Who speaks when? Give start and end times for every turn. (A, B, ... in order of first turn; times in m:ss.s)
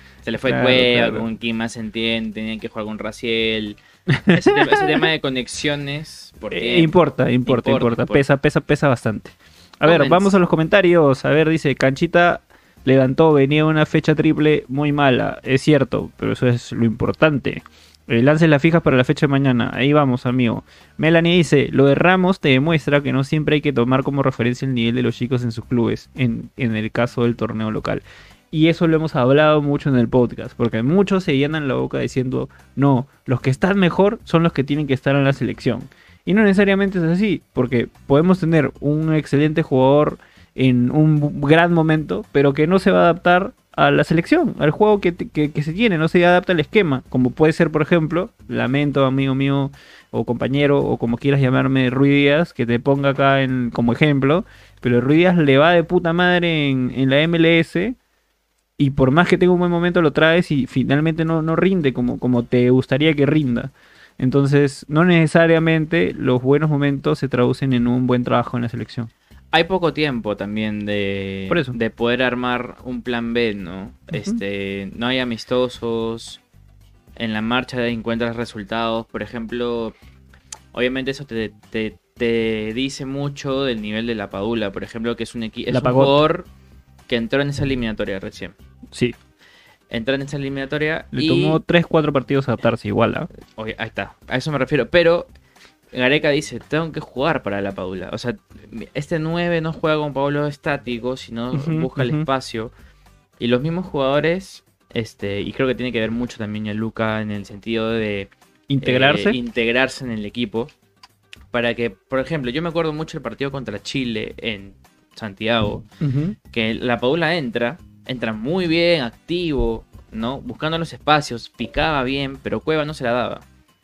0:00.2-0:08.2 A
0:00.4-0:01.3 B
0:04.1-0:05.0 B
0:06.5-0:58.0 B
0:09.8-0:10.3 A
0:58.8-1:09.1 B
1:09.5-1:16.4 A
1:11.5-1:11.8 B
1:14.1-1:14.4 B
1:17.2-1:20.0 A
1:20.7-1:26.5 A
1:25.7-1:26.2 B
1:27.1-1:28.5 A
1:28.9-1:29.2 B
1:29.9-1:31.6 A
1:31.1-1:33.3 B
1:33.6-1:35.3 A
1:35.9-1:42.7 A
1:41.5-1:42.2 B
1:43.4-1:50.7 A
1:48.7-1:49.4 B
1:51.5-1:55.8 A
1:56.0-1:56.4 B
1:56.5-2:03.4 A